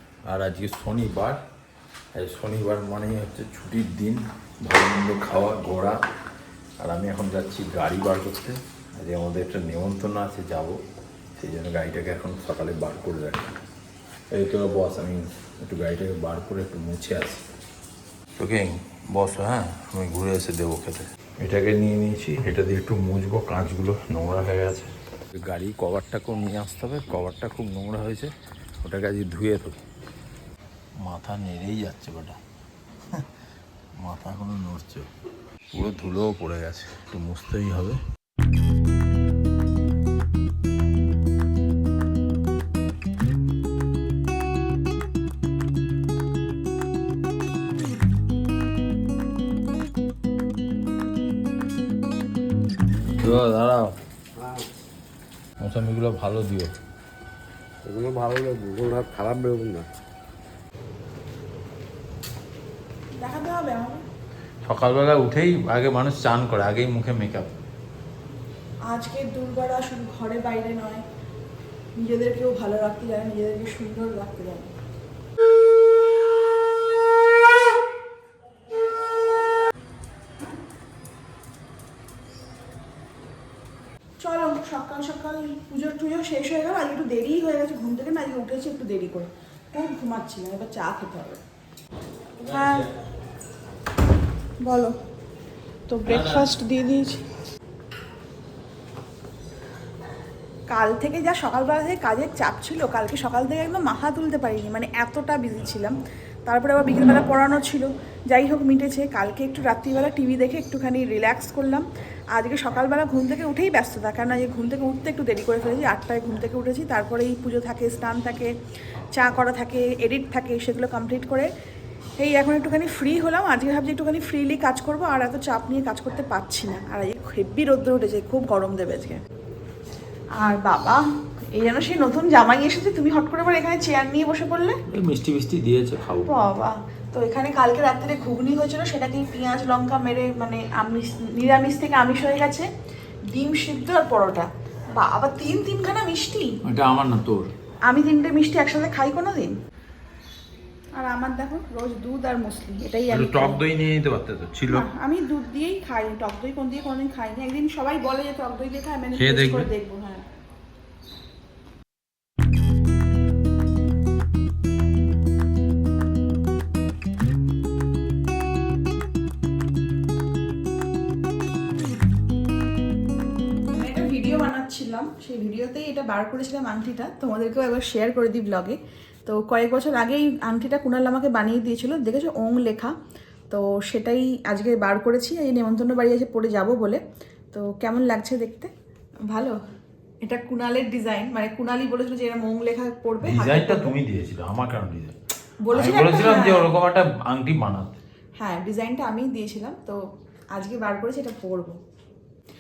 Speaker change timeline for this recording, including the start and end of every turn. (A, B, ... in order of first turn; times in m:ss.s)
0:00.2-0:01.4 A
0:02.1-0:06.0 A
0:06.8-0:10.8 A
0:11.4-0:13.6 A
0:14.3-0:17.4 A
0:18.4-0:24.9 A
0:25.4-0:29.8 A
0:31.0-0:32.4 A
0:34.0-0:35.1 A
0:35.7-0:38.0 A
0:53.2-0:53.9 A
0:55.6-0:56.7 A
0:57.8-0:59.9 B
1:03.2-1:04.0 C
1:04.6-1:07.5 A
1:08.9-1:11.0 C
1:12.0-1:14.7 C
1:24.2-1:31.4 C
1:32.4-1:32.9 C
1:32.4-1:32.9 A
1:34.6-1:34.9 C
1:35.9-1:37.2 C
1:36.1-1:36.5 A
1:40.7-1:58.5 C
1:59.1-2:01.5 C
2:02.2-2:09.2 C
2:10.4-2:11.0 C
2:11.5-2:14.8 C
2:14.9-2:16.4 A
2:16.2-2:22.7 C
2:23.3-2:26.6 C
2:26.6-2:27.5 A
2:27.8-2:29.6 C
2:31.0-2:33.6 C
2:33.1-2:34.8 A
2:34.7-2:40.2 C
2:39.2-2:39.7 A
2:53.7-3:02.9 C
3:03.5-3:07.0 C
3:07.5-3:08.7 C
3:10.2-3:13.9 C
3:13.2-3:15.1 A
3:15.6-3:16.7 C
3:15.7-3:18.0 A
3:18.4-3:20.0 C
3:20.5-3:21.8 C